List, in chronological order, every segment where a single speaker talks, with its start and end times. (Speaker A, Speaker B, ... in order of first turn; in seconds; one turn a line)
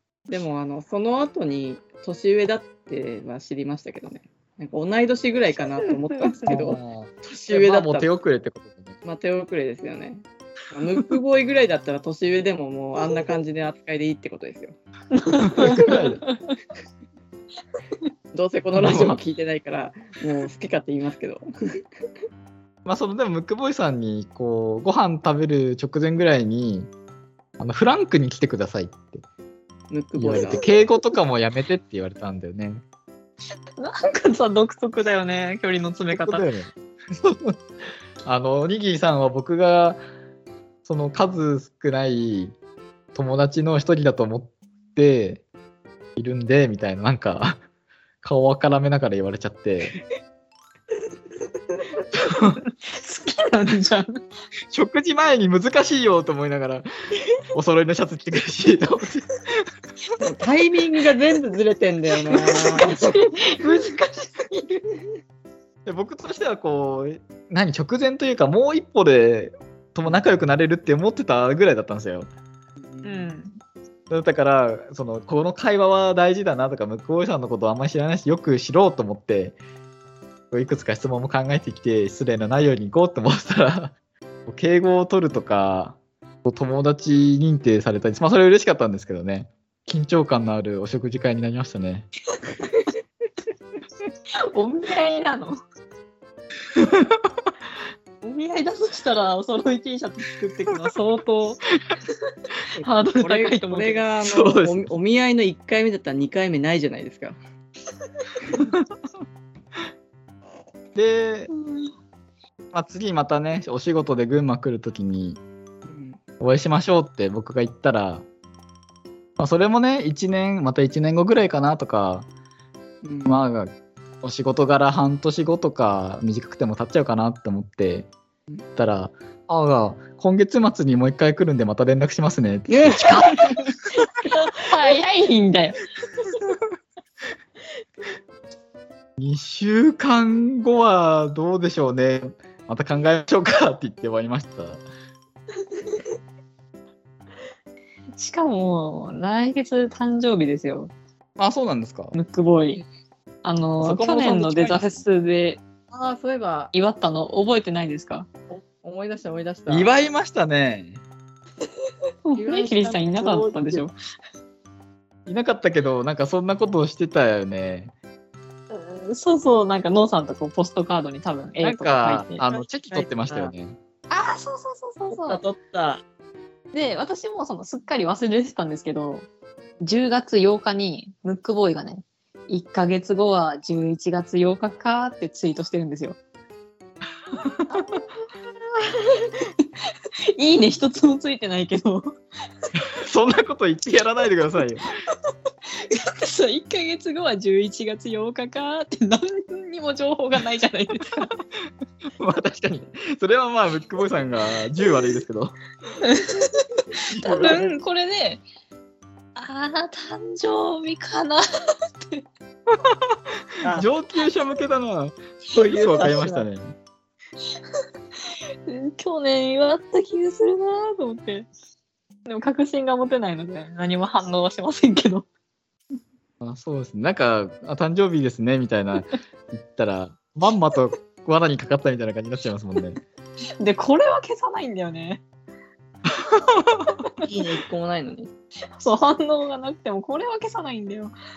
Speaker A: 0.3-8.1
Speaker B: 6.5-9.0
Speaker A: 9.0-14.7
Speaker C: 15.1-16.6
Speaker B: 15.4-16.2
Speaker A: 18.3-21.4
Speaker B: 18.8-19.2
Speaker B: 22.9-26.9
Speaker B: 27.6-29.2
Speaker A: 29.9-30.6
Speaker B: 30.2-32.8
Speaker C: 33.8-36.5
Speaker B: 36.1-37.6
Speaker B: 38.2-40.0
Speaker B: 40.9-42.5
Speaker B: 43.1-45.4
Speaker B: 46.2-47.6
Speaker B: 48.2-50.0
Speaker B: 52.1-52.6
Speaker C: 52.7-54.2
Speaker B: 54.7-56.9
Speaker B: 57.5-59.3
Speaker A: 60.2-63.2
Speaker C: 62.3-64.8
Speaker B: 65.9-72.3
Speaker A: 72.8-73.3
Speaker C: 73.0-73.6
Speaker B: 74.1-79.6
Speaker B: 80.5-84.0
Speaker B: 84.5-92.1
Speaker C: 94.5-95.6
Speaker B: 96.8-97.3
Speaker C: 98.2-101.6
Speaker A: 102.8-107.4
Speaker C: 102.8-104.0
Speaker B: 104.2-104.9
Speaker B: 111.0-111.5
Speaker C: 111.5-111.9
Speaker B: 112.7-115.4
Speaker A: 115.8-116.2
Speaker B: 116.4-118.2
Speaker B: 119.4-122.3
Speaker A: 123.0-123.4
Speaker B: 123.3-128.1
Speaker B: 128.8-133.5
Speaker A: 132.7-133.7
Speaker C: 134.5-135.8
Speaker B: 139.2-144.8
Speaker C: 148.2-150.9
Speaker B: 151.4-152.2
Speaker C: 152.1-152.8
Speaker C: 153.4-155.6
Speaker B: 153.8-155.0
Speaker A: 155.9-156.7
Speaker C: 156.7-158.3
Speaker A: 158.5-159.9
Speaker B: 159.7-161.0
Speaker C: 162.2-163.9
Speaker A: 162.4-163.5
Speaker B: 163.1-163.8
Speaker B: 165.3-167.9
Speaker C: 168.7-172.4
Speaker B: 171.6-173.8
Speaker A: 172.5-173.5
Speaker C: 174.1-175.4
Speaker A: 175.1-176.0
Speaker C: 176.7-179.3
Speaker C: 179.8-186.2
Speaker B: 187.3-187.8
Speaker C: 188.9-189.5
Speaker C: 190.3-192.1
Speaker B: 192.8-194.9
Speaker C: 195.7-201.3
Speaker B: 202.2-205.6
Speaker C: 206.0-208.4
Speaker A: 207.2-207.8
Speaker C: 209.3-212.2
Speaker B: 212.7-213.2
Speaker B: 213.7-216.8
Speaker A: 215.5-216.5
Speaker C: 218.7-221.5
Speaker C: 222.3-225.3
Speaker B: 226.4-233.0
Speaker C: 233.6-235.2
Speaker B: 236.1-237.0
Speaker A: 237.2-238.3
Speaker C: 238.8-241.1